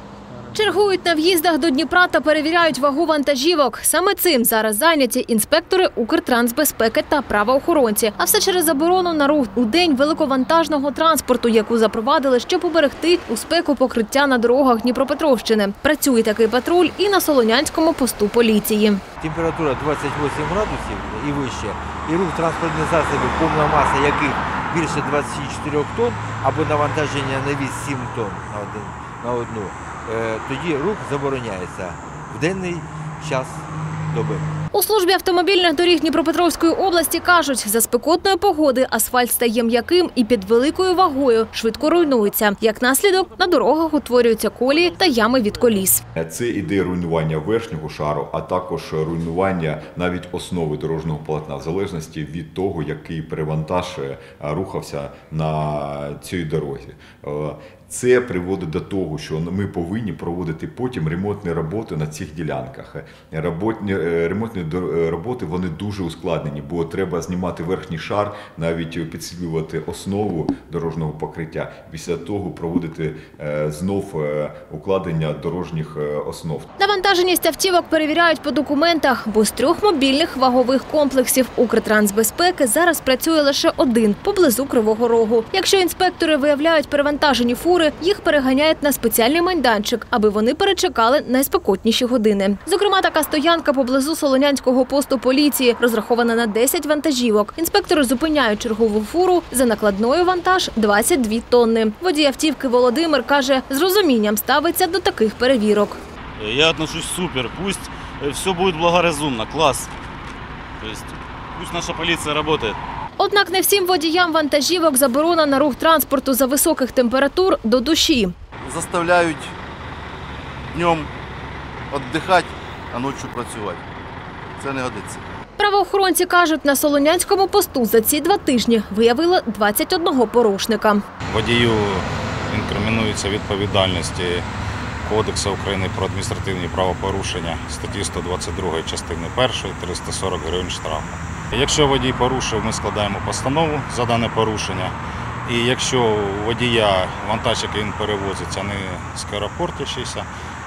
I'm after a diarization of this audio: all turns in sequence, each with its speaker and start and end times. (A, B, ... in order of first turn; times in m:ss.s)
0:00.5-0:19.0 A
0:19.2-0:34.5 B
0:34.7-0:46.0 A
0:46.1-1:16.7 C
1:16.8-1:46.0 A
1:46.4-1:49.9 D
1:50.8-1:52.8 D
1:53.2-1:58.3 A
1:58.6-1:59.5 E
2:00.7-2:01.1 E
2:01.9-2:03.8 E
2:04.6-2:05.3 E
2:05.6-2:11.0 A
2:11.3-2:14.4 F
2:15.0-2:24.9 F
2:25.4-2:30.3 F